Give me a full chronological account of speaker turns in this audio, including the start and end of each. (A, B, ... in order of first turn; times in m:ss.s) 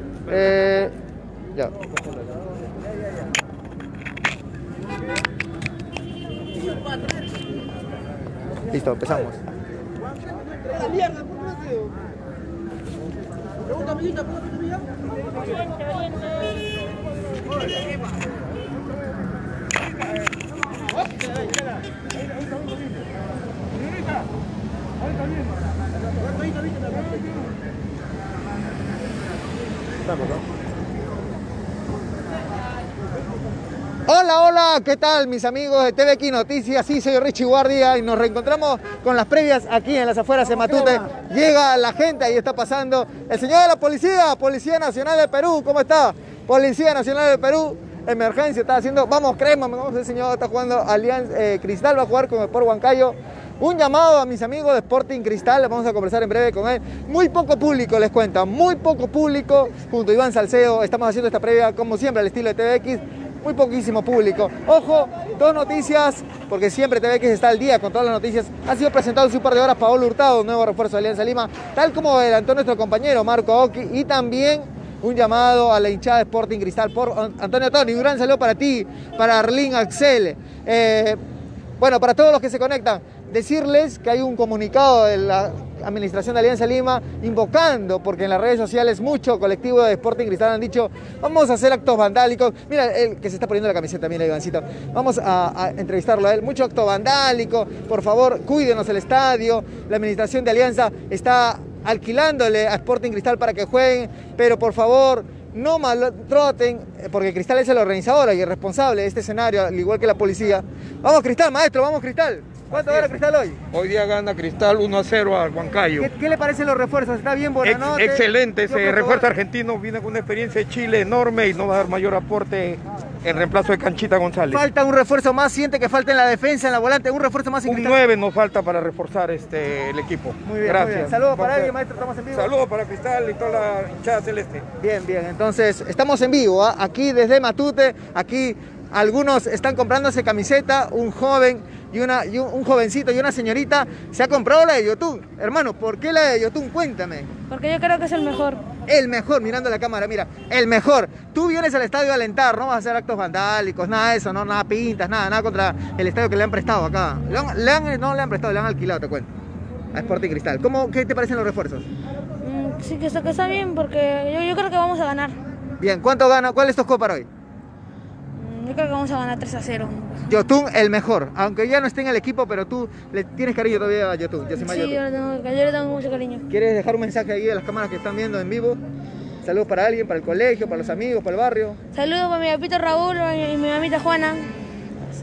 0:00.3-0:00.9 A
0:08.7-0:09.4 A
0:34.1-1:21.2 A
1:21.8-1:53.6 A
1:52.7-1:53.1 B
1:53.7-1:56.1 B
1:55.9-1:59.3 A
1:57.6-2:04.6 B
2:04.5-2:08.0 A
2:07.6-2:11.7 B
2:10.4-2:12.5 A
2:12.3-2:14.6 B
2:14.8-2:27.3 A
2:27.5-2:28.6 C
2:28.9-2:39.3 A
2:39.9-2:41.9 A
2:39.9-2:40.3 C
2:42.4-2:45.4 C
2:45.8-2:47.3 A
2:48.4-2:50.2 C
2:50.3-2:55.0 A
2:54.5-2:56.4 C
2:56.5-2:58.8 A
2:59.4-3:01.8 A
3:01.9-3:04.5 C